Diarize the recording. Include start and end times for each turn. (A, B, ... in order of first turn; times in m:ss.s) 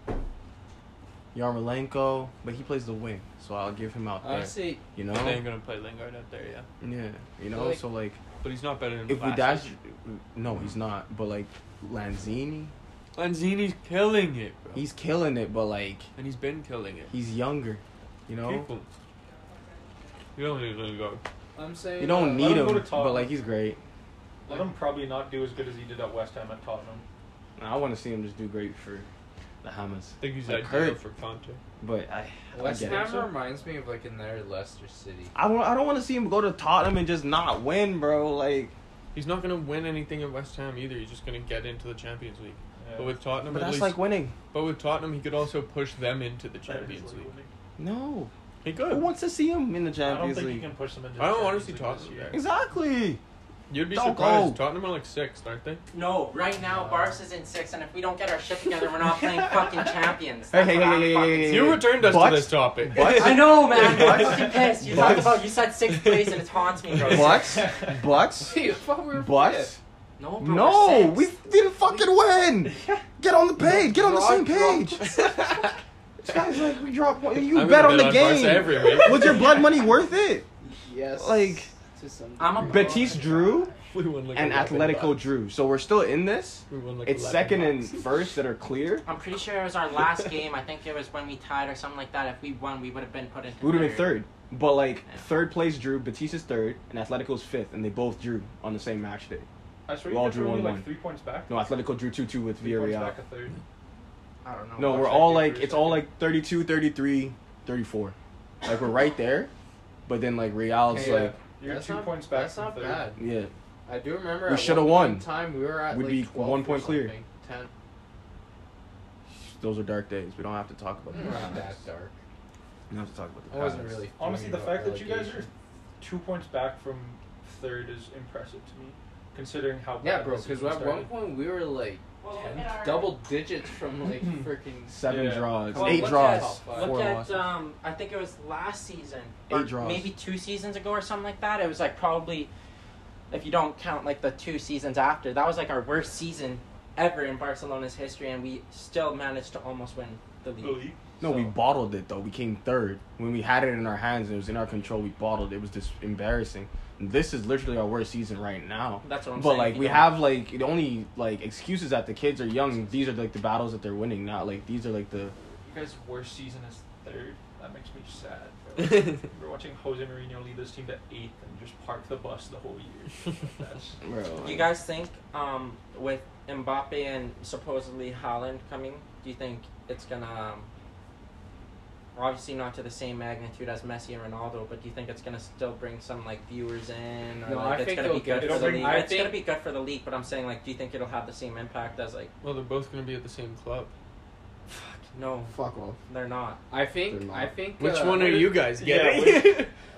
0:01.3-0:05.5 A
0:04.2-0:04.8 B
0:05.1-0:06.7 C
0:06.8-0:08.2 A
0:07.5-0:07.8 B
0:08.4-0:09.7 C
0:09.1-0:12.7 A
0:13.2-0:14.8 C
0:14.8-0:16.1 A
0:16.2-0:17.1 C
0:17.1-0:18.7 A
0:18.4-0:18.9 C
0:20.4-0:21.2 C
0:21.6-0:22.7 B
0:22.0-0:23.8 A
0:22.4-0:23.3 D
0:24.5-0:27.0 D
0:27.6-0:29.1 A
0:29.6-0:31.0 A
0:30.2-0:31.6 C
0:31.8-0:33.3 A
0:32.5-0:35.3 B
0:32.7-0:33.2 D
0:35.3-0:38.7 A
0:39.1-0:44.0 C
0:42.8-0:43.2 D
0:43.5-0:44.3 A
0:44.5-0:47.3 C
0:46.7-0:47.5 D
0:47.8-0:48.3 A
0:48.6-0:49.1 C
0:48.9-0:50.7 A
0:50.0-0:52.4 D
0:51.2-0:52.4 C
0:52.3-0:53.2 A
0:53.7-0:55.8 C
0:53.9-0:54.6 A
0:55.9-1:01.7 E
0:56.7-0:57.2 B
1:00.5-1:04.2 A
1:01.4-1:04.3 C
1:03.0-1:07.7 E
1:03.7-1:04.8 D
1:04.9-1:06.4 C
1:04.9-1:05.2 A
1:06.9-1:07.2 C
1:07.0-1:08.0 D
1:07.0-1:08.6 A
1:08.4-1:09.7 B
1:09.1-1:09.8 A
1:10.2-1:11.3 E
1:10.4-1:15.1 A
1:11.8-1:12.1 B
1:13.6-1:15.4 B
1:15.1-1:15.7 C
1:16.2-1:20.5 A
1:17.4-1:19.5 C
1:18.9-1:19.4 B
1:20.6-1:23.2 B
1:21.2-1:21.7 A
1:22.4-1:23.7 E
1:22.6-1:23.7 A
1:23.9-1:25.2 C
1:24.3-1:29.0 A
1:26.7-1:28.1 C
1:29.0-1:34.2 E
1:33.6-1:39.5 A
1:39.9-1:41.5 D
1:40.1-1:40.9 A
1:41.5-1:43.2 A
1:42.6-1:43.6 D
1:44.4-1:45.3 E
1:44.8-1:49.5 A
1:44.9-1:46.1 D
1:50.1-1:51.4 A
1:50.9-1:53.2 B
1:50.9-1:53.1 D
1:53.2-1:53.5 A
1:53.9-1:57.7 B
1:54.4-1:55.3 A
1:55.9-1:57.2 A
1:59.3-2:01.8 A
2:01.1-2:02.2 B
2:02.9-2:04.0 A
2:03.5-2:05.5 B
2:04.2-2:11.1 D
2:10.0-2:17.0 B
2:12.2-2:13.2 E
2:14.1-2:14.5 D
2:14.9-2:17.4 A
2:15.0-2:16.2 D
2:15.7-2:22.5 E
2:19.5-2:20.1 A
2:23.3-2:30.9 E
2:30.6-2:31.5 D
2:31.2-2:45.3 A
2:39.0-2:40.2 E
2:45.6-2:54.0 D
2:48.8-2:49.2 C
2:54.0-2:54.7 A
2:54.4-3:00.7 E
3:02.2-3:12.3 E
3:07.4-3:09.4 B
3:08.4-3:09.0 D
3:12.4-3:13.9 C
3:14.7-3:15.5 E
3:15.5-3:16.0 A
3:16.1-3:16.6 E
3:16.7-3:18.6 B
3:17.1-3:17.5 A
3:17.8-3:19.7 C
3:18.7-3:19.7 D